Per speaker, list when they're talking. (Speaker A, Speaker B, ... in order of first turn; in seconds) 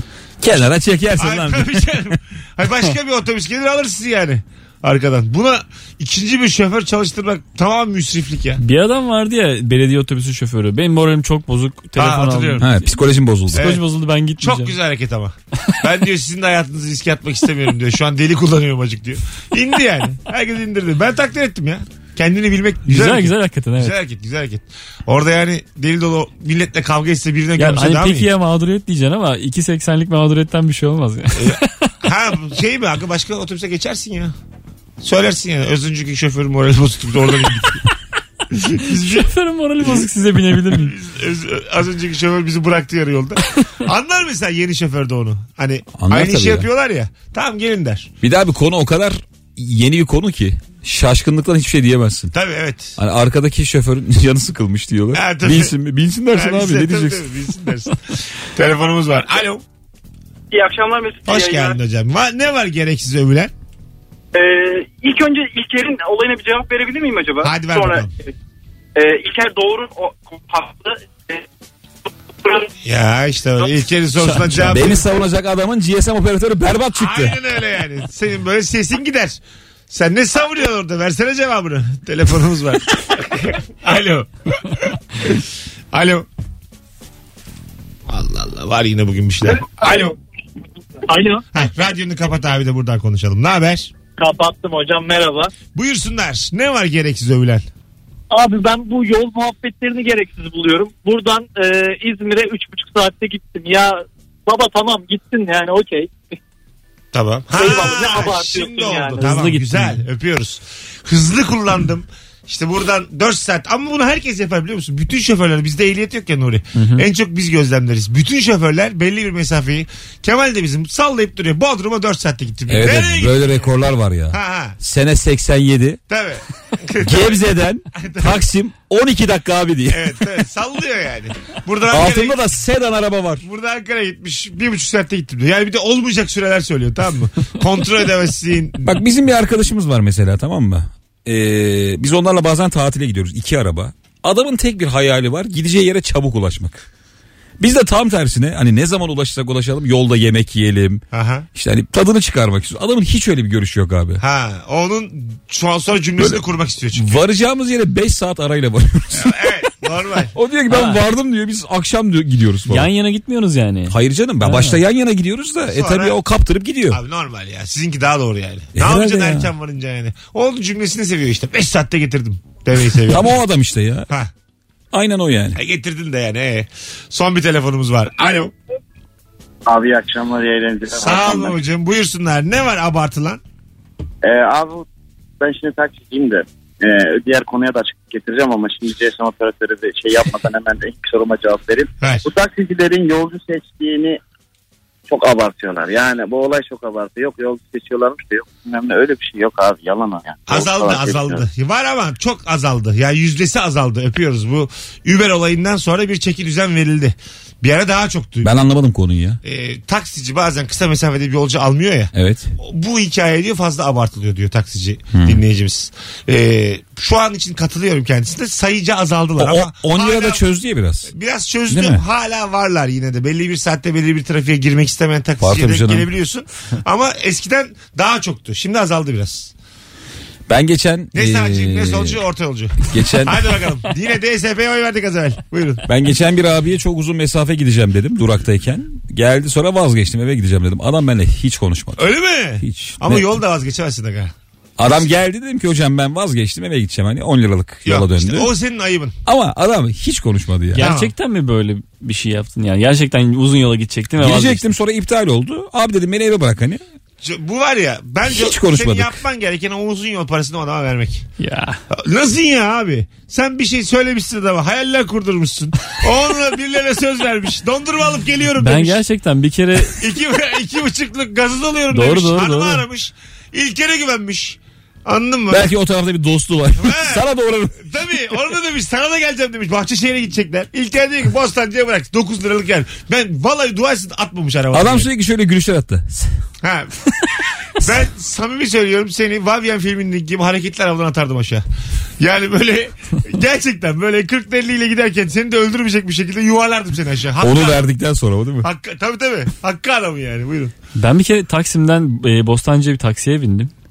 Speaker A: 0.4-2.2, 12.6-13.7, 46.0-46.7, 48.2-52.3, 53.0-57.3, 74.6-77.4, 122.7-126.0, 127.0-130.3, 131.9-133.4, 138.8-146.9, 147.6-151.0, 151.6-154.2, 156.9-159.6, 160.3-162.9, 163.9-167.0, 168.8-169.5, 172.9-174.1, 174.9-175.6, 208.4-209.4, 212.2-212.5, 215.1-215.4, 219.4-221.1, 221.7-222.1, 225.4-226.1, 230.5-232.2, 232.8-233.6, 235.9-242.1, 242.6-243.3, 244.8-248.5, 249.3-250.9, 254.2-256.8, 258.3-259.2, 275.5-277.8, 284.7-286.4, 297.4-298.7
Speaker B: 1.2-8.6, 12.0-12.7, 13.5-13.8, 14.4-28.3, 31.4-34.3, 35.0-37.8, 38.5-39.3, 39.8-40.1, 40.6-48.1, 52.3-53.0, 55.1-55.8, 56.3-59.6, 61.3-63.5, 67.4-68.1, 72.8-75.1, 77.0-79.4, 79.9-86.3, 88.1-90.0, 91.5-93.9, 95.7-97.7, 107.1-123.7, 124.3-124.8, 126.1-128.4, 129.9-132.4, 133.4-139.0, 151.1-151.5, 154.2-157.2, 159.1-160.3, 165.7-166.2, 166.9-173.4, 175.6-178.5, 180.9-183.4, 200.5-208.5, 209.4-220.4, 221.1-229.5, 231.1-235.8, 242.0-244.3, 247.8-249.2, 250.8-251.1, 257.2-261.3, 261.9-269.0, 269.9-275.7, 276.8-277.2, 277.8-285.1, 286.6-287.1, 287.8-291.6, 292.2-297.9, 298.6-300.7
Speaker C: 8.6-12.9, 13.5-14.8, 22.9-23.9, 27.6-31.9, 38.8-41.0, 74.2-74.8, 109.2-110.0, 116.8-117.1, 160.7-161.0, 162.7-164.8, 250.7-254.7, 261.4-261.8, 268.6-270.1, 271.9-272.8, 301.0-303.7
Speaker D: 60.5-61.8, 64.3-68.3, 69.0-71.5, 72.4-72.7, 89.8-90.1, 91.0-91.5, 94.2-95.5, 98.3-106.1, 107.5-109.3
Speaker E: 179.7-181.6, 184.2-184.9, 185.4-194.2, 195.1-201.4